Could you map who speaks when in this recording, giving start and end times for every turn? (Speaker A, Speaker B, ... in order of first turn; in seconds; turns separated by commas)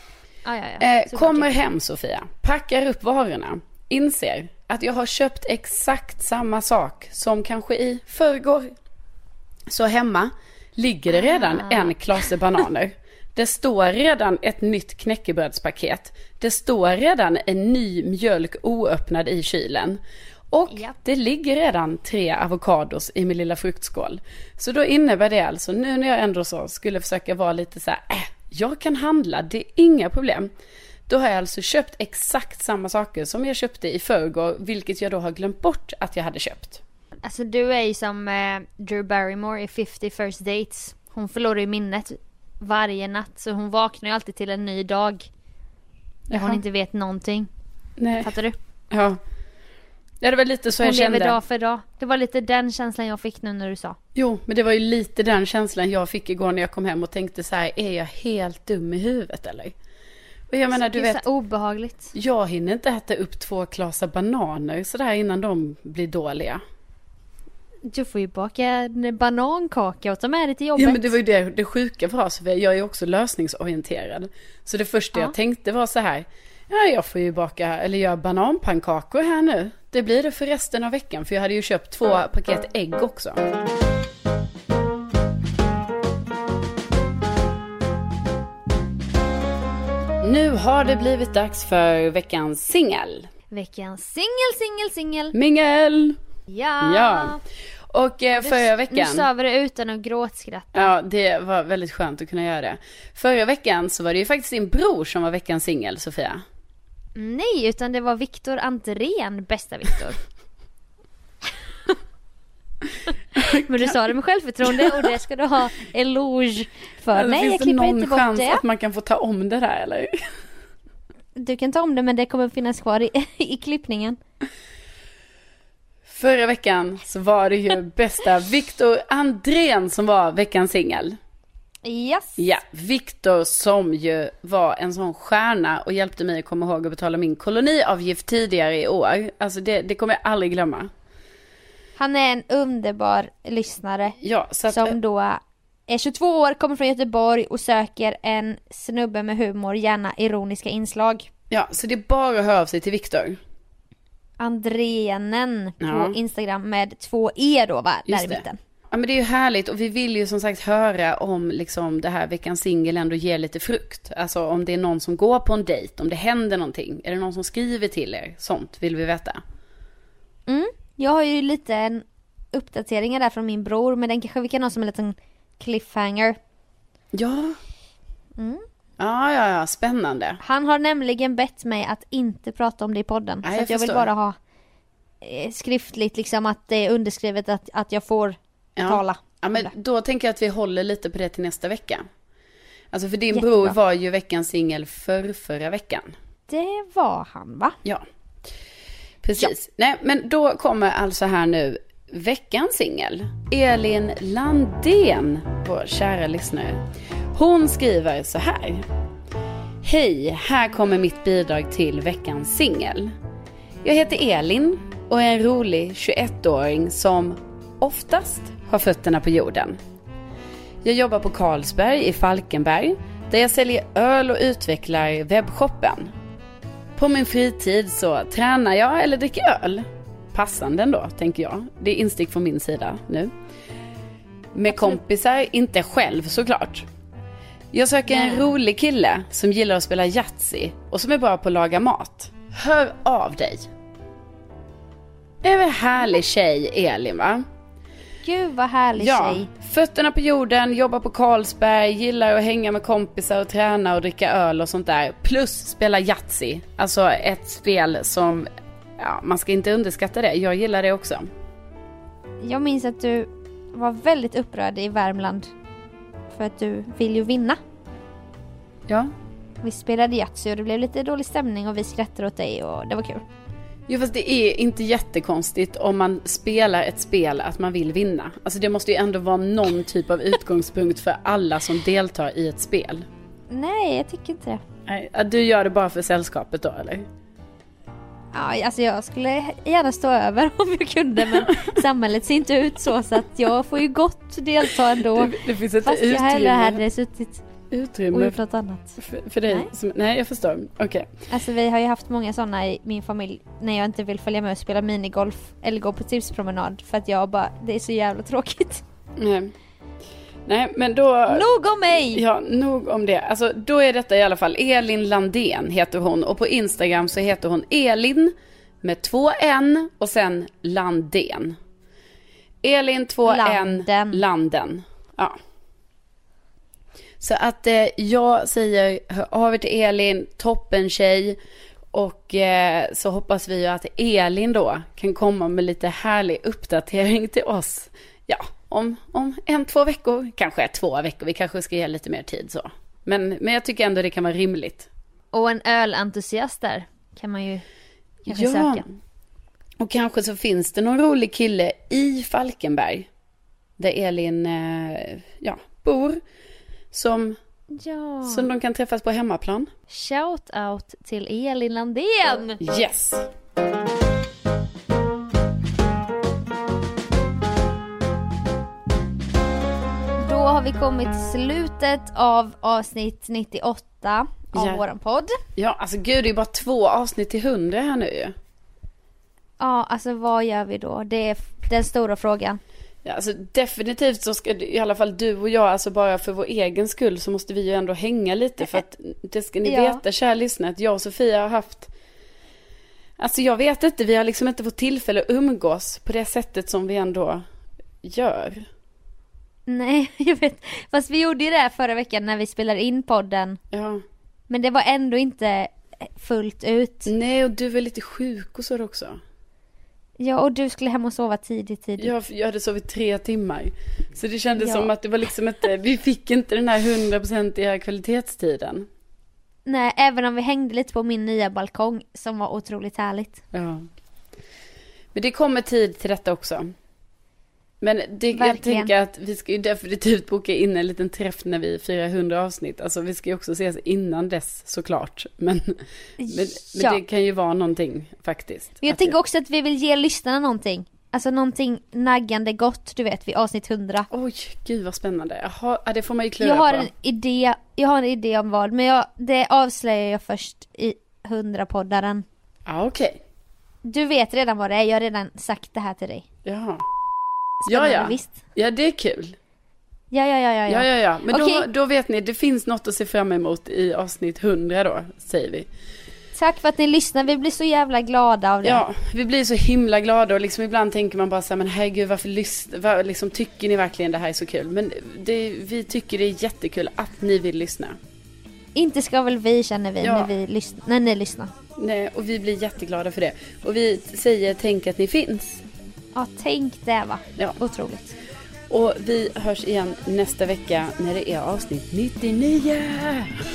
Speaker A: 0.5-1.5, Speaker B: 0.8-8.7, Speaker B: 9.7-20.0, Speaker A: 11.1-11.9, Speaker B: 20.5-30.5, Speaker A: 20.7-20.9, Speaker B: 31.1-36.8, Speaker A: 37.2-45.3, Speaker B: 46.3-46.6, Speaker A: 46.3-47.5, Speaker B: 48.0-48.3, Speaker A: 48.2-48.6, Speaker B: 48.9-49.2, Speaker B: 50.2-51.4, Speaker A: 50.8-54.0, Speaker B: 54.1-59.7, Speaker B: 60.5-61.2, Speaker A: 60.7-62.1, Speaker B: 62.1-66.6, Speaker A: 67.9-71.2, Speaker B: 70.8-83.4, Speaker B: 90.2-93.3, Speaker A: 93.5-95.3, Speaker B: 95.3-96.2, Speaker A: 96.5-97.4, Speaker B: 96.8-97.3, Speaker B: 97.9-99.3, Speaker A: 98.4-100.9, Speaker B: 100.8-106.4, Speaker A: 107.2-110.2, Speaker B: 113.4-114.0, Speaker A: 113.7-118.6, Speaker B: 114.7-115.1, Speaker B: 117.1-120.2, Speaker A: 121.4-124.2, Speaker B: 126.1-131.2, Speaker A: 131.8-132.4, Speaker B: 132.4-140.9, Speaker A: 142.0-144.2, Speaker B: 144.2-145.0, Speaker A: 144.7-151.3, Speaker B: 151.5-153.4, Speaker A: 154.4-158.6, Speaker B: 155.8-156.2, Speaker B: 158.1-169.4, Speaker A: 170.5-176.4, Speaker B: 177.1-177.6, Speaker A: 178.4-178.6, Speaker B: 179.0-180.4, Speaker A: 180.4-184.4, Speaker B: 183.4-184.1, Speaker A: 185.2-189.7, Speaker B: 188.8-192.1, Speaker B: 192.9-196.2, Speaker A: 193.3-193.8, Speaker A: 196.5-197.8, Speaker B: 199.2-206.8, Speaker B: 207.3-208.9, Speaker B: 209.8-213.1, Speaker B: 213.8-219.8, Speaker B: 220.8-226.1, Speaker B: 227.0-233.3, Speaker B: 234.5-236.9, Speaker A: 234.7-235.0, Speaker B: 237.7-243.7, Speaker A: 238.1-238.6, Speaker B: 245.4-247.4, Speaker A: 248.2-249.5, Speaker B: 249.0-258.5, Speaker B: 259.0-261.3, Speaker A: 262.4-265.5, Speaker A: 266.3-267.6, Speaker A: 269.6-273.2, Speaker B: 273.9-283.1, Speaker A: 283.5-284.6, Speaker B: 284.9-287.1, Speaker A: 288.3-297.4, Speaker B: 291.3-291.7, Speaker B: 295.1-296.8, Speaker B: 297.7-298.4, Speaker A: 298.1-299.7, Speaker B: 299.0-301.1, Speaker A: 301.3-308.8, Speaker B: 309.2-309.5, Speaker B: 310.5-311.4, Speaker A: 311.3-312.2, Speaker B: 312.0-321.6, Speaker B: 322.6-325.4, Speaker A: 323.3-324.2, Speaker B: 327.2-331.4, Speaker B: 331.9-344.9, Speaker A: 345.3-347.6, Speaker A: 348.3-348.8, Speaker B: 348.3-348.8, Speaker B: 349.8-353.1, Speaker B: 353.8-356.2, Speaker B: 356.9-357.4, Speaker A: 357.7-358.5, Speaker B: 358.3-359.7, Speaker A: 359.9-362.6, Speaker B: 362.6-363.3, Speaker A: 370.2-375.4, Speaker B: 374.6-374.8, Speaker B: 375.6-378.4, Speaker A: 379.6-382.6, Speaker B: 383.1-391.9, Speaker A: 389.6-390.0, Speaker B: 393.2-397.4, Speaker B: 398.0-398.7, Speaker A: 399.7-403.6, Speaker B: 403.7-404.0, Speaker A: 404.5-407.1, Speaker B: 407.1-409.2, Speaker A: 410.2-412.1, Speaker B: 412.0-418.9, Speaker A: 414.6-414.9, Speaker A: 419.7-423.4, Speaker B: 423.5-423.9, Speaker B: 425.1-426.7, Speaker B: 427.8-435.8, Speaker A: 428.3-428.9, Speaker A: 436.2-437.0, Speaker B: 436.3-439.2, Speaker A: 438.8-444.1, Speaker B: 444.1-446.9, Speaker A: 446.4-452.2, Speaker B: 452.7-453.2, Speaker A: 453.8-456.2, Speaker B: 456.4-456.8, Speaker A: 457.7-458.4, Speaker B: 457.7-459.4, Speaker A: 460.1-461.7, Speaker B: 460.7-465.7, Speaker A: 466.3-468.8, Speaker B: 468.6-478.0, Speaker A: 478.8-481.5, Speaker B: 480.0-480.3, Speaker B: 481.8-485.6, Speaker A: 486.1-488.2, Speaker B: 488.7-493.3